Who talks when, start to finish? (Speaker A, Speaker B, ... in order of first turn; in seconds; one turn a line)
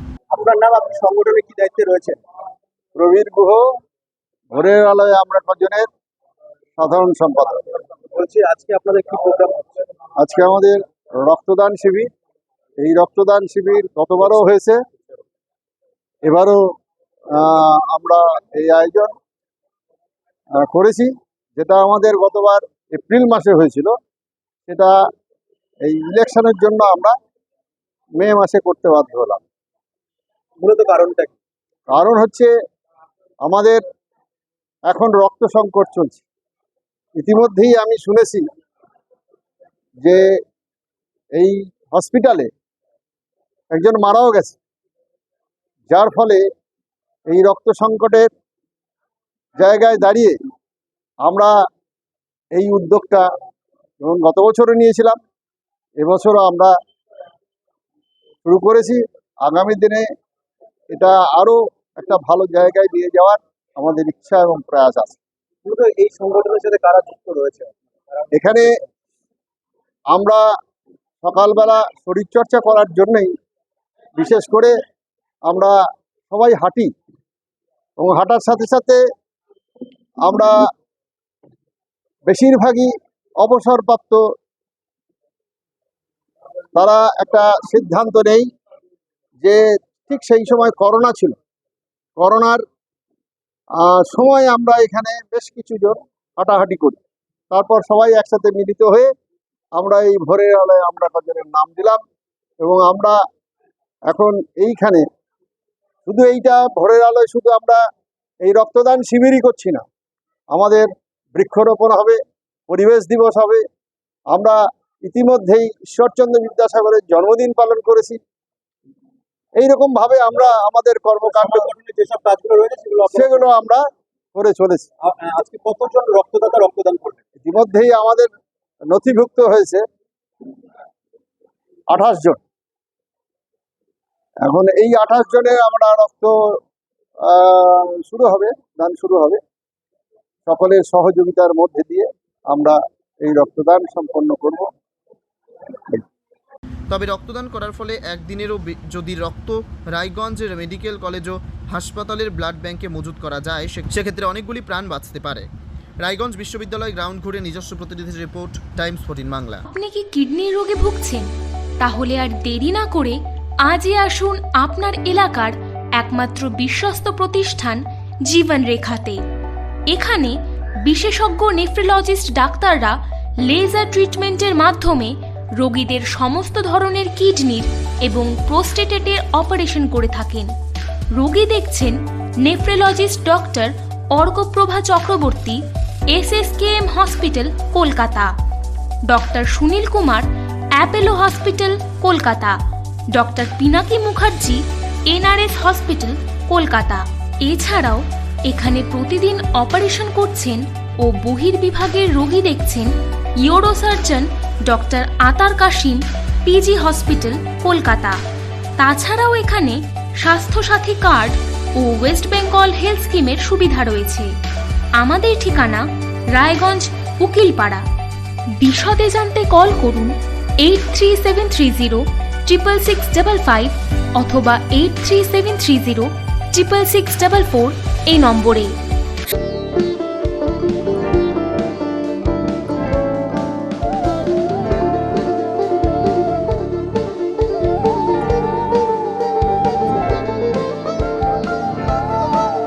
Speaker A: 0.3-2.2
Speaker B: 3.0-3.6
Speaker B: 4.5-5.9
Speaker B: 6.8-7.6
Speaker A: 8.1-9.9
Speaker B: 10.2-12.1
Speaker B: 12.8-14.8
Speaker B: 16.2-16.7
Speaker B: 17.3-19.1
Speaker B: 20.6-23.9
Speaker B: 24.7-24.9
Speaker B: 25.8-27.1
Speaker B: 28.2-29.4
Speaker A: 30.6-31.3
Speaker B: 31.9-32.5
Speaker B: 33.4-33.8
Speaker B: 34.9-36.2
Speaker B: 37.2-38.5
Speaker B: 40.0-40.3
Speaker B: 41.4-42.5
Speaker B: 43.7-44.6
Speaker B: 45.9-46.4
Speaker B: 47.3-48.3
Speaker B: 49.6-50.4
Speaker B: 51.2-51.6
Speaker B: 52.5-53.2
Speaker B: 54.0-55.2
Speaker B: 56.0-56.7
Speaker B: 58.4-60.1
Speaker B: 60.9-65.2
Speaker A: 65.6-67.7
Speaker B: 68.3-68.7
Speaker B: 70.1-70.5
Speaker B: 71.2-73.3
Speaker B: 74.2-74.7
Speaker B: 75.5-75.8
Speaker B: 76.3-76.9
Speaker B: 78.0-79.0
Speaker B: 80.2-80.7
Speaker B: 82.3-84.2
Speaker B: 86.8-88.5
Speaker B: 89.4-91.3
Speaker B: 92.2-92.6
Speaker B: 93.8-97.0
Speaker B: 97.5-99.1
Speaker B: 99.8-102.0
Speaker B: 102.6-103.2
Speaker B: 104.1-105.0
Speaker B: 106.0-107.8
Speaker B: 108.4-109.8
Speaker B: 110.5-113.6
Speaker B: 114.3-118.2
Speaker B: 119.6-121.7
Speaker A: 121.2-123.4
Speaker B: 123.1-123.8
Speaker B: 124.3-124.9
Speaker A: 125.0-127.2
Speaker B: 127.4-128.3
Speaker B: 128.9-129.8
Speaker B: 131.9-132.4
Speaker B: 134.4-136.6
Speaker B: 137.2-139.4
Speaker B: 140.5-144.7
Speaker C: 146.9-155.5
Speaker C: 156.0-159.6
Speaker D: 159.7-161.3
Speaker D: 161.8-169.2
Speaker D: 169.9-180.5
Speaker D: 181.1-185.6
Speaker D: 186.1-188.3
Speaker D: 189.1-192.6
Speaker D: 193.1-208.2
Speaker D: 208.8-214.3
Speaker D: 215.0-217.8
Speaker D: 218.6-228.7